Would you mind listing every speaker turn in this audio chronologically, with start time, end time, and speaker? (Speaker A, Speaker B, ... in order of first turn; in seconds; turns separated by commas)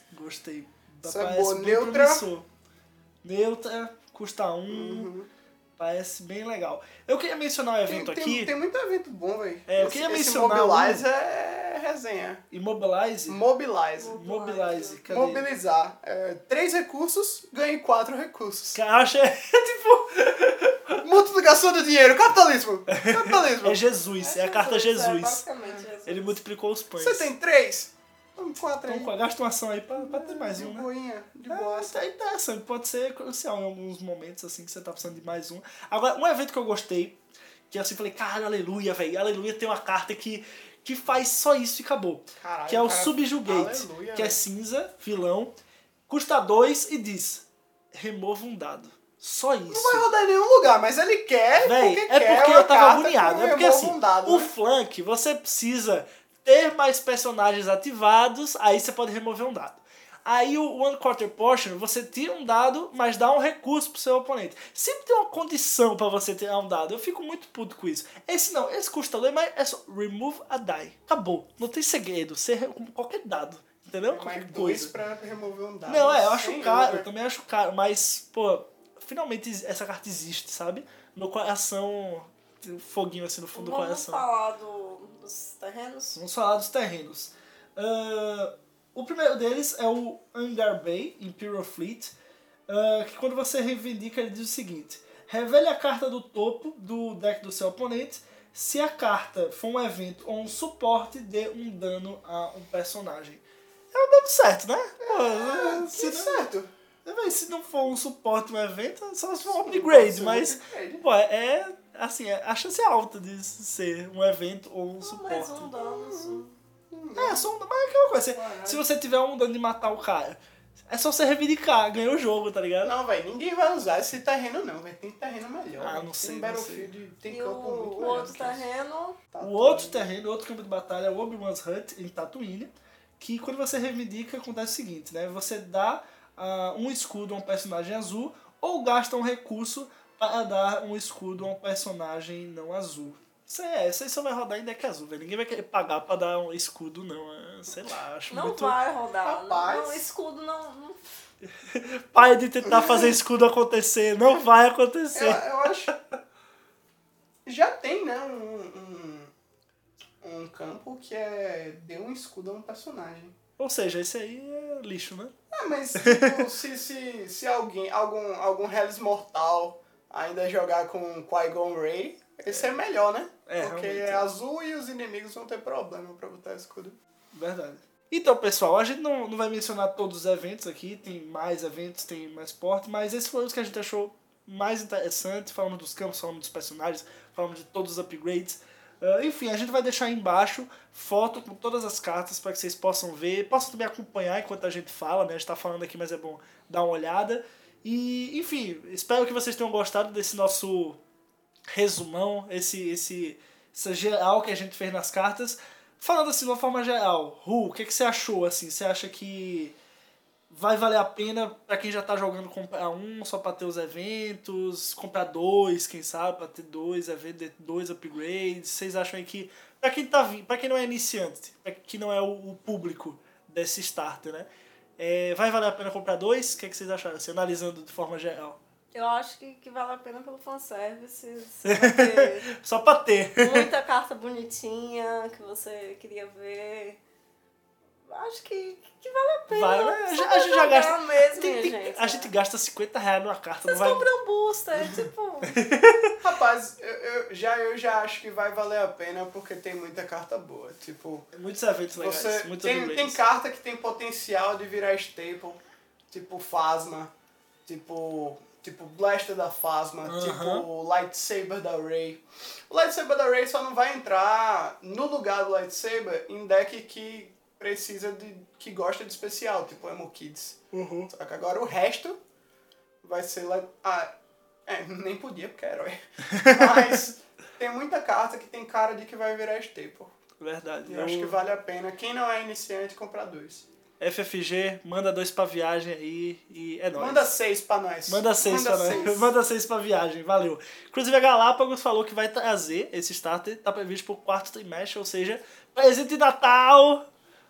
Speaker A: 0.1-2.5, Speaker B: 1.0-2.2, Speaker A: 3.2-5.1, Speaker B: 4.7-5.3, Speaker A: 5.8-8.5, Speaker B: 7.8-12.4, Speaker A: 9.7-11.1, Speaker A: 12.5-13.4, Speaker B: 13.3-14.2, Speaker C: 14.0-15.0, Speaker A: 14.1-15.4, Speaker B: 15.1-18.8, Speaker A: 18.7-21.0, Speaker B: 21.0-23.8, Speaker A: 22.9-25.4, Speaker C: 24.2-26.4, Speaker B: 25.6-25.9, Speaker A: 26.1-27.3, Speaker B: 27.0-29.1, Speaker A: 28.9-30.9, Speaker B: 30.0-31.9, Speaker A: 31.5-45.5, Speaker B: 42.4-44.4, Speaker A: 46.1-50.0, Speaker B: 49.7-54.5, Speaker A: 51.6-74.9, Speaker B: 74.1-77.0, Speaker A: 75.9-84.2, Speaker C: 83.5-86.2, Speaker A: 86.1-92.1, Speaker A: 92.7-106.5, Speaker B: 105.0-106.7, Speaker A: 107.0-115.7, Speaker B: 109.4-111.0, Speaker C: 115.0-116.5, Speaker B: 115.8-117.5, Speaker A: 117.2-123.0, Speaker B: 118.3-118.8, Speaker B: 122.8-128.6, Speaker A: 125.8-126.9, Speaker C: 127.3-129.2, Speaker B: 129.3-130.1, Speaker A: 129.4-148.8, Speaker C: 148.3-151.1, Speaker B: 149.2-150.1, Speaker A: 151.4-155.9, Speaker B: 152.6-153.2, Speaker B: 155.1-155.9, Speaker B: 157.4-159.3, Speaker B: 160.2-163.3, Speaker A: 163.6-165.3, Speaker B: 165.5-177.0, Speaker A: 165.9-166.5, Speaker A: 172.5-172.8, Speaker A: 173.5-174.3, Speaker A: 177.3-201.0, Speaker A: 201.7-209.8, Speaker A: 210.5-228.6, Speaker C: 228.9-232.5, Speaker A: 231.6-233.7, Speaker C: 233.4-237.0, Speaker C: 238.1-242.3, Speaker A: 239.5-244.1, Speaker C: 243.7-245.6, Speaker B: 244.8-245.0, Speaker A: 245.5-246.1, Speaker B: 246.2-251.3, Speaker A: 251.3-253.2, Speaker B: 252.0-257.1, Speaker B: 257.6-272.2, Speaker A: 260.0-260.7, Speaker A: 270.7-271.1, Speaker B: 273.0-274.1, Speaker B: 274.7-280.1, Speaker A: 276.3-277.0, Speaker A: 280.4-281.4, Speaker B: 280.9-283.7, Speaker A: 284.0-287.3, Speaker B: 286.9-289.3, Speaker A: 288.1-297.0